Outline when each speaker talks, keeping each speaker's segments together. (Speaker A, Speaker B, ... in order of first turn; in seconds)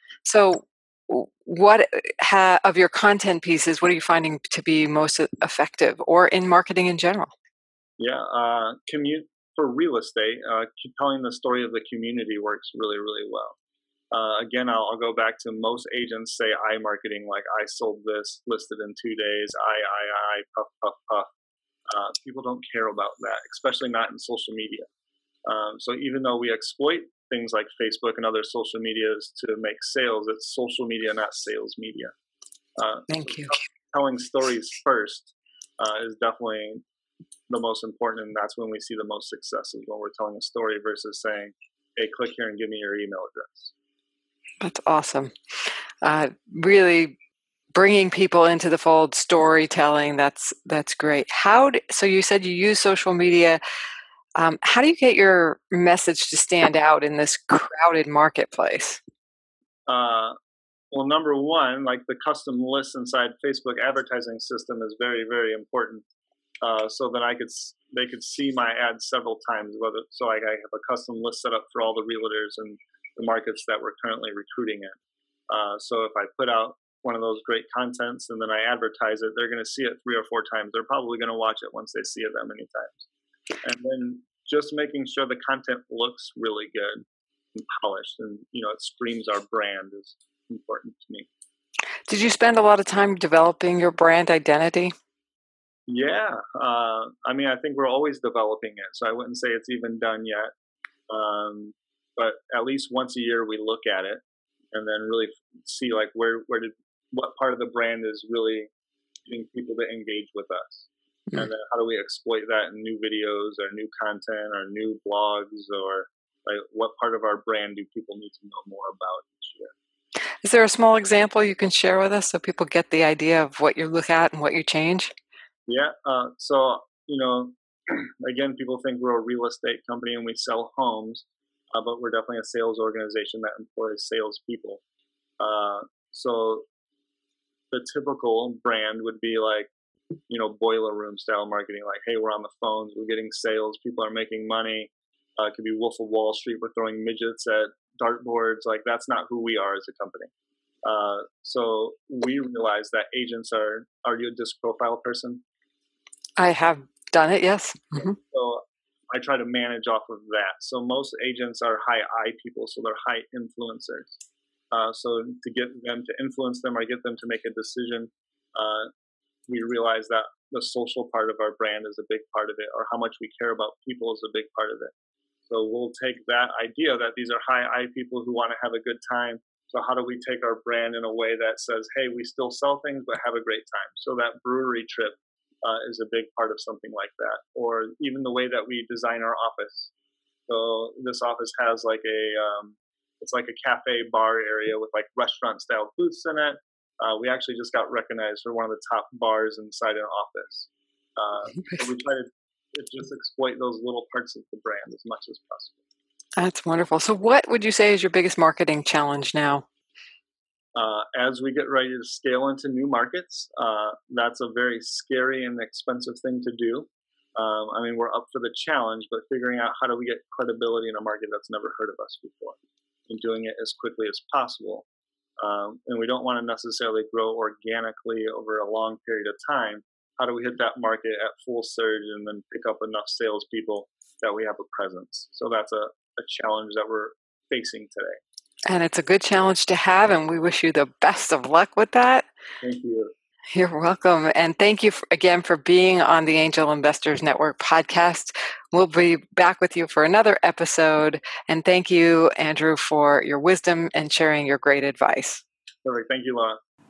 Speaker A: 0.2-7.3, 33.1-33.5, 44.6-47.1, 47.7-53.6, 54.4-59.0, 92.1-94.9, 120.4-125.1, 156.4-158.2, 206.4-209.6, 238.7-242.2, 243.5-255.4
Speaker B: 8.0-13.6, 14.1-21.3, 21.9-24.9, 25.4-32.1, 32.8-36.8, 37.5-43.7, 59.9-60.4, 60.9-66.0, 66.6-75.0, 75.5-83.1, 83.6-91.3, 95.9-100.5, 101.1-108.7, 109.2-119.7, 125.7-134.8, 135.4-136.7, 137.7-139.7, 140.3-150.3, 150.8-155.4, 158.0-164.2, 164.7-168.9, 169.5-174.9, 175.5-189.9, 190.5-205.8, 210.7-224.8, 225.4-238.2, 242.6-243.1, 255.8-256.6